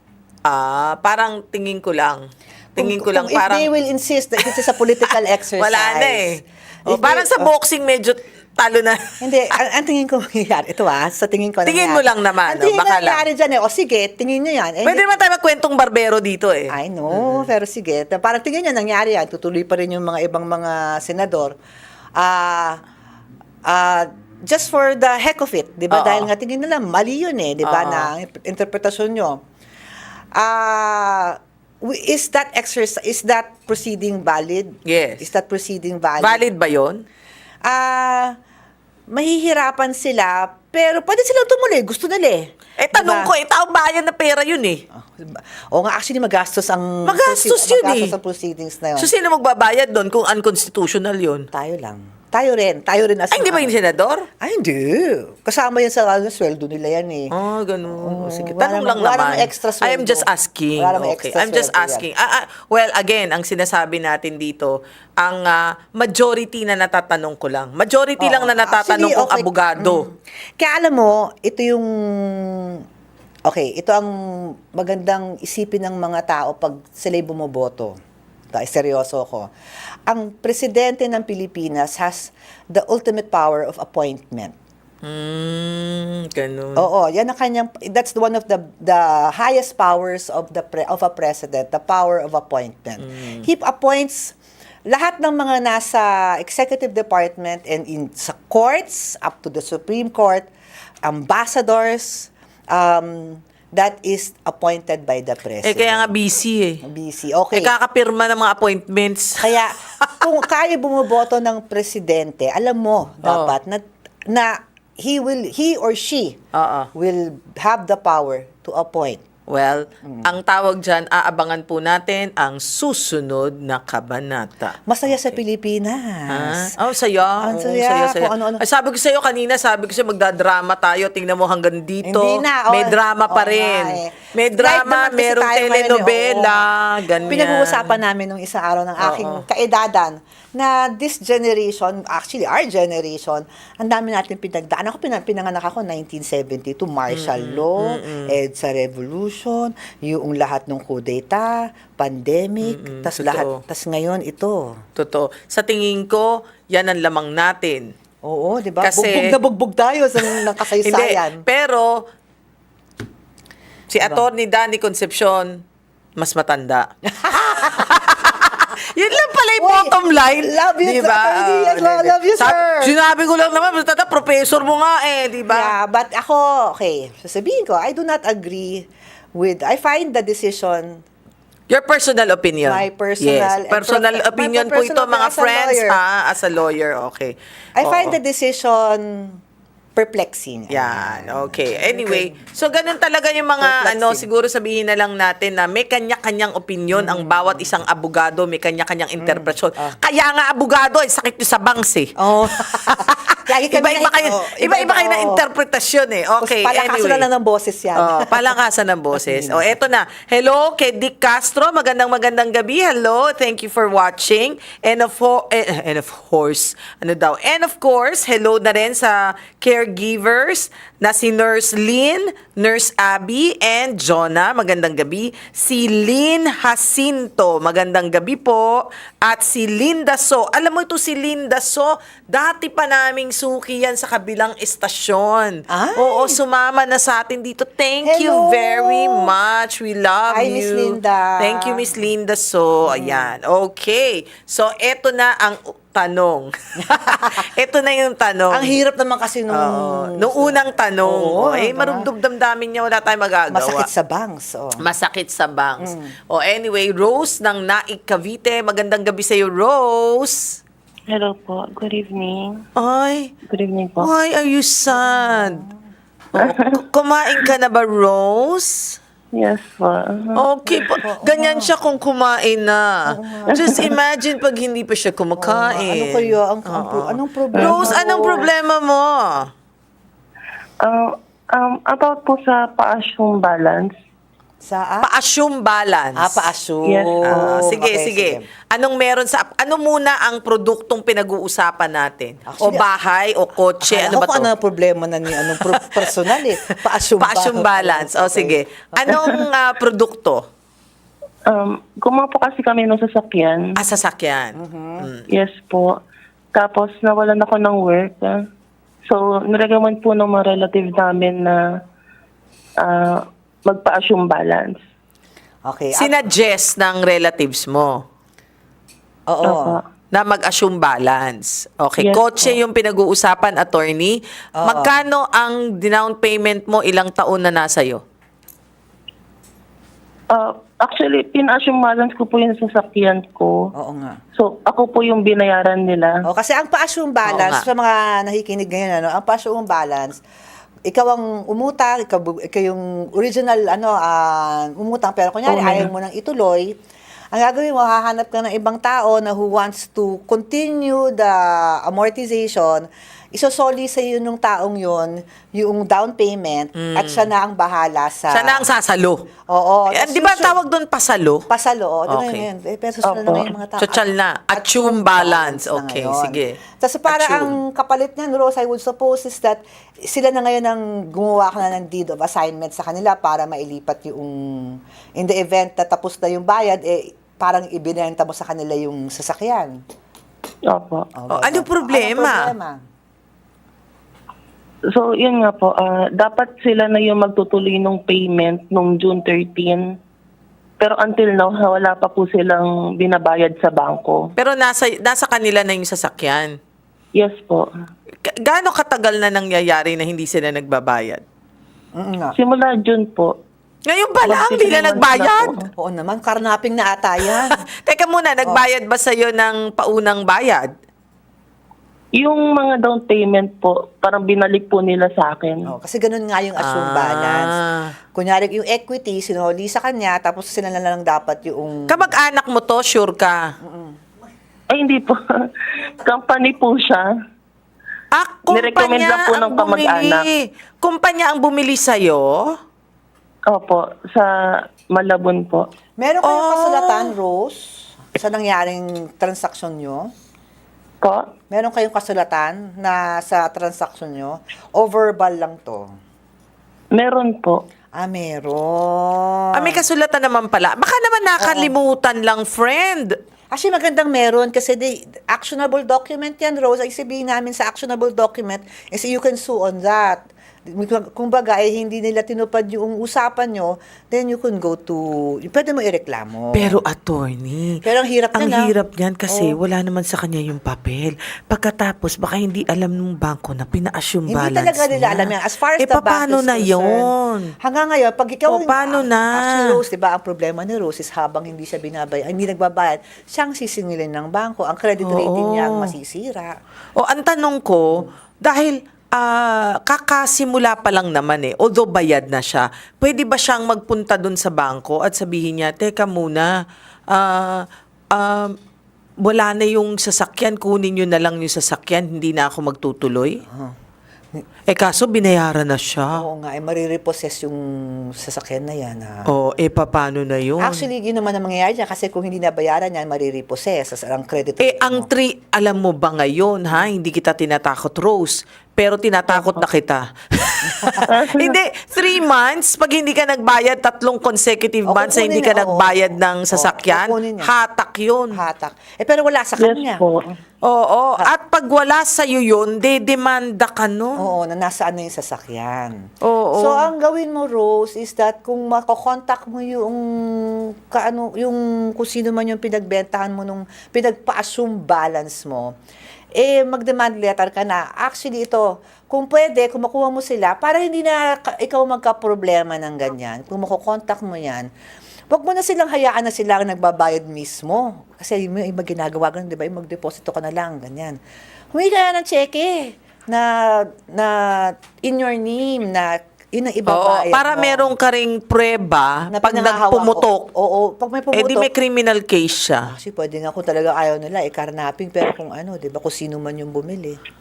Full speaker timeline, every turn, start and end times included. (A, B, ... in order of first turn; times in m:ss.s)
0:00.5-0:03.7 A
0:02.8-0:06.4 B
0:04.4-0:09.2 A
0:06.9-0:07.5 B
0:09.2-0:15.1 B
0:11.7-0:13.2 A
0:14.8-0:17.5 A
0:16.7-0:21.6 B
0:22.2-0:22.8 B
0:23.6-0:29.4 B
0:25.9-0:26.3 A
0:27.6-0:28.1 A
0:30.4-0:36.4 B
0:34.8-0:35.3 A
0:36.2-0:37.0 A
0:37.6-0:38.4 B
0:39.1-0:43.3 B
0:42.8-0:44.8 A
0:45.0-0:49.1 B
0:47.0-0:48.2 A
0:49.0-0:51.5 A
0:51.5-0:53.7 B
0:53.3-0:54.3 A
0:54.4-0:57.3 B
0:57.3-1:10.1 A
0:57.9-1:02.1 B
1:08.2-1:12.8 B
1:13.5-1:18.0 B
1:18.5-1:19.5 B
1:20.1-1:24.6 B
1:25.0-1:26.9 A
1:26.8-1:34.4 B
1:33.0-1:33.4 A
1:34.9-1:40.5 B
1:41.0-1:46.1 B
1:45.6-1:46.8 A
1:46.8-1:47.7 B
1:47.5-1:50.2 A
1:49.4-1:56.4 B
1:53.2-1:53.6 A
1:56.5-1:56.9 A
1:57.0-1:59.2 B
1:59.5-2:05.4 A
2:00.0-2:00.3 B
2:04.9-2:06.7 B
2:06.3-2:18.0 A
2:07.4-2:08.6 B
2:12.0-2:16.7 B
2:17.2-2:34.8 B
2:19.0-2:19.4 A
2:27.1-2:28.4 A
2:32.6-2:33.6 A
2:35.0-2:37.9 A
2:38.2-2:41.4 B
2:38.8-2:39.4 A
2:40.2-2:42.1 A
2:43.9-2:45.6 A
2:46.2-2:55.7 A
2:47.1-2:48.0 B
2:49.6-2:53.0 B
2:55.5-3:01.0 B
3:01.7-3:08.2 A
3:02.6-3:06.0 B
3:07.8-3:09.4 B
3:10.0-3:12.5 B
3:10.7-3:22.2 A
3:13.6-3:14.3 B
3:16.9-3:17.7 B
3:19.2-3:20.0 B
3:22.2-3:25.4 B
3:22.7-3:27.3 A
3:26.4-3:28.6 B
3:28.0-4:08.7 A
3:29.1-3:29.8 B
3:55.7-3:56.4 B
3:58.0-3:59.3 B
4:00.3-4:01.8 B
4:02.9-4:03.4 B
4:06.9-4:07.4 B
4:08.5-4:12.1 B
4:09.5-4:13.9 A
4:13.5-4:14.8 B
4:14.8-4:20.6 A
4:15.8-4:16.1 B
4:21.1-4:22.6 C
4:22.8-4:23.3 A
4:23.5-4:24.1 C
4:24.0-4:25.6 A
4:24.9-4:25.8 B
4:26.3-4:29.0 A
4:26.4-4:26.8 C
4:29.3-4:30.4 C
4:30.4-4:39.5 A
4:30.7-4:31.7 B
4:33.1-4:33.9 B
4:33.5-4:33.9 C
4:35.4-4:38.5 B
4:37.6-4:38.5 C
4:40.8-4:43.9 C
4:44.6-4:45.1 B
4:45.0-4:46.4 A
4:46.2-4:48.4 B
4:46.9-4:47.6 C
4:47.3-4:54.5 A
4:52.5-4:52.8 B
4:53.8-4:59.2 B
4:55.5-4:56.4 A
4:57.2-5:00.4 A
5:01.5-5:03.7 C
5:03.8-5:05.3 A
5:04.6-5:05.1 B
5:05.3-5:06.0 C
5:06.5-5:08.4 C
5:09.1-5:11.6 C
5:12.8-5:14.8 C
5:15.7-5:16.3 B
5:16.0-5:18.0 A
5:19.3-5:19.8 B
5:19.4-5:19.8 C
5:20.1-5:28.0 A
5:22.0-5:22.6 C
5:24.6-5:25.0 B
5:30.3-5:33.7 C
5:33.8-5:34.2 B
5:34.4-5:36.2 C
5:36.2-5:40.2 B
5:37.3-5:37.7 A
5:40.9-5:46.8 B
5:45.5-5:45.9 C
5:47.3-5:58.7 B
5:56.8-5:57.3 A
5:58.3-5:59.3 A
5:59.5-6:00.6 B
5:59.9-6:01.5 A
6:01.5-6:19.8 B
6:02.1-6:02.5 A
6:03.0-6:03.5 C
6:03.8-6:07.6 A
6:20.7-6:21.1 C
6:21.2-6:22.8 B
6:21.3-6:22.5 A
6:24.9-6:29.9 C
6:30.8-6:34.3 C
6:34.4-6:36.6 A
6:37.2-6:37.7 C
6:38.2-6:41.2 A
6:42.0-6:42.4 B
6:42.4-6:43.4 C
6:43.9-6:45.6 A
6:44.2-6:45.6 C
6:45.6-6:47.5 B
6:47.2-6:50.7 A
6:52.2-6:55.7 C
6:55.6-6:57.6 B
6:56.6-6:57.9 A
6:58.1-7:02.1 B
7:01.9-7:03.5 A
7:03.6-7:04.0 B
7:04.7-7:07.1 C
7:08.1-7:12.6 A
7:08.5-7:10.3 C
7:13.5-7:15.7 C
7:16.0-7:20.1 B
7:16.2-7:17.1 A
7:21.0-7:21.3 C
7:21.5-7:25.9 B
7:27.0-7:27.6 C
7:28.0-7:29.9 B
7:29.5-7:33.2 A
7:31.4-7:31.8 B
7:33.5-7:46.8 B
7:46.5-7:47.8 A
7:47.8-7:48.7 B
7:48.4-7:57.5 A
7:49.3-7:49.6 B
7:54.3-8:06.6 B
7:58.5-7:59.8 A
8:05.0-8:05.9 A
8:07.0-8:16.5 A
8:17.1-8:18.6 A
8:19.2-8:23.4 A
8:23.5-8:23.8 B
8:24.7-8:26.2 A
8:26.2-8:29.3 B
8:29.3-8:30.9 A
8:30.6-8:35.1 B
8:34.6-8:48.4 A
8:39.3-8:39.6 C
8:40.7-8:41.1 B
8:41.1-8:41.6 C
8:44.9-8:47.5 B
8:48.3-8:50.0 B
8:49.6-8:50.4 C
8:50.6-8:54.2 A
8:54.2-9:05.7 B
8:56.2-8:56.9 A
9:06.4-9:14.7 B
9:15.3-9:21.2 B
9:21.7-9:28.0 B
9:26.9-9:30.5 A
9:29.3-9:31.7 B
9:31.3-9:32.9 A
9:32.8-9:37.2 B